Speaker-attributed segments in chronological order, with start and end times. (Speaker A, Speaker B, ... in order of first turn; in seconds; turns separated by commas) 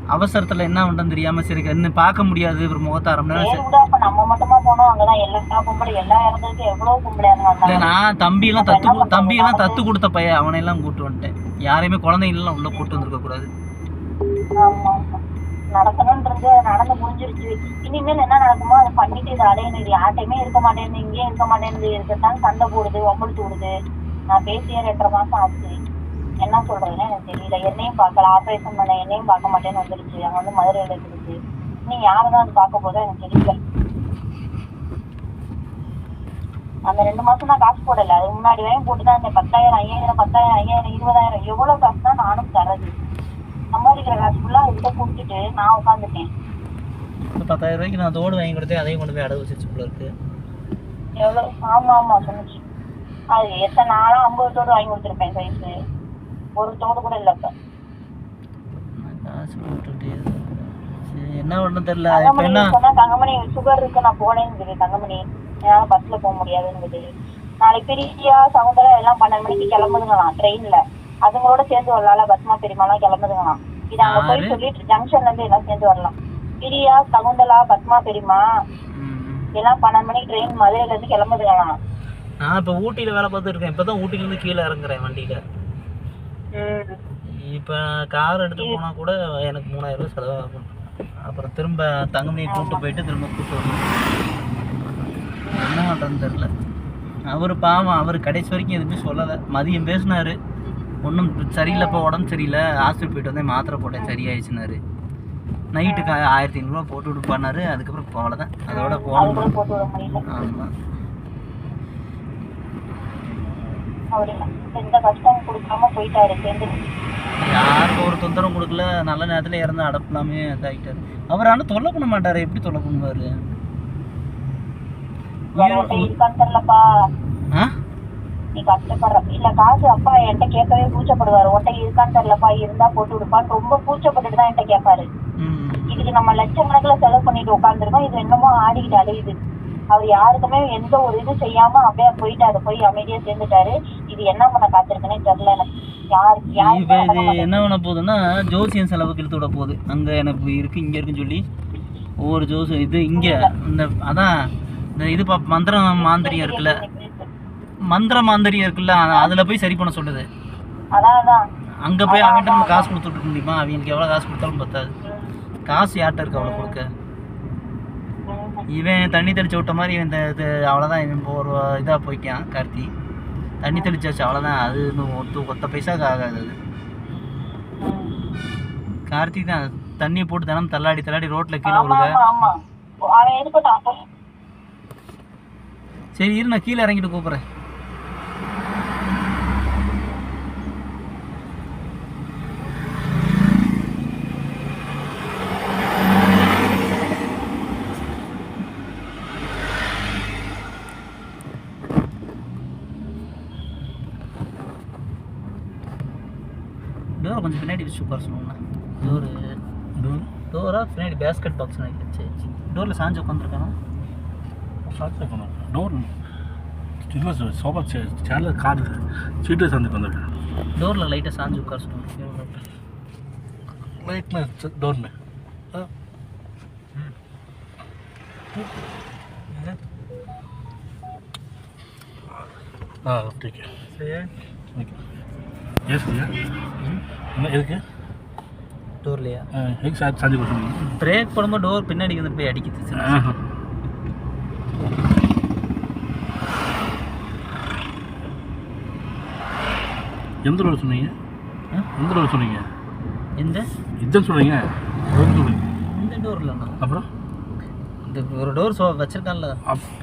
Speaker A: 0.1-3.6, Speaker B: 3.3-7.9, Speaker A: 7.7-13.5, Speaker B: 8.6-9.8, Speaker B: 12.7-13.0, Speaker B: 14.6-15.2, Speaker B: 15.7-23.7, Speaker B: 24.3-25.7, Speaker B: 26.4-33.6, Speaker B: 36.9-42.9, Speaker B: 43.7-46.3, Speaker A: 47.3-50.1, Speaker B: 51.2-52.6, Speaker B: 53.3-55.7, Speaker B: 56.6-57.5, Speaker A: 59.0-62.7, Speaker B: 62.1-67.0, Speaker B: 67.6-78.4, Speaker A: 74.0-74.6, Speaker A: 78.9-79.5, Speaker B: 79.6-81.7, Speaker A: 82.4-85.4, Speaker B: 86.5-87.0, Speaker A: 87.3-90.7, Speaker A: 91.2-93.8, Speaker B: 92.5-92.8, Speaker B: 95.4-95.7, Speaker A: 95.5-96.5, Speaker A: 97.3-100.3, Speaker A: 101.0-104.8, Speaker B: 101.7-102.0, Speaker A: 105.7-109.5, Speaker B: 105.8-106.1, Speaker B: 108.7-110.2, Speaker A: 110.0-110.7, Speaker B: 114.1-116.8, Speaker A: 117.4-123.5, Speaker B: 125.5-126.8, Speaker A: 125.6-126.1, Speaker B: 128.5-135.1, Speaker A: 135.4-136.0, Speaker B: 135.9-139.3, Speaker B: 139.9-147.6, Speaker A: 146.5-151.4, Speaker A: 152.2-154.3, Speaker B: 153.2-153.5, Speaker A: 155.0-156.8, Speaker B: 156.0-157.3, Speaker A: 157.9-160.3, Speaker B: 160.9-161.4, Speaker A: 161.8-164.9, Speaker B: 162.1-162.9, Speaker B: 165.0-165.3, Speaker A: 165.7-166.9, Speaker B: 166.3-166.8, Speaker B: 168.3-168.6, Speaker A: 168.7-172.9, Speaker A: 173.6-176.5, Speaker B: 177.8-178.1, Speaker A: 179.1-182.2, Speaker B: 181.7-182.5, Speaker B: 183.1-184.0, Speaker A: 186.2-187.4, Speaker A: 207.2-209.6, Speaker C: 210.0-210.3, Speaker A: 210.5-213.7, Speaker C: 214.8-216.1, Speaker C: 217.1-220.3, Speaker A: 220.8-222.6, Speaker C: 224.0-225.1, Speaker C: 233.0-233.7, Speaker A: 233.9-234.3, Speaker C: 235.9-236.4, Speaker C: 237.3-237.8, Speaker A: 239.0-239.5, Speaker C: 239.5-240.8, Speaker A: 240.8-243.2, Speaker C: 243.0-243.4, Speaker C: 250.4-251.1, Speaker C: 252.0-252.7, Speaker A: 253.4-253.6, Speaker C: 254.0-255.6, Speaker A: 255.8-256.8, Speaker C: 256.8-257.1, Speaker A: 258.0-259.6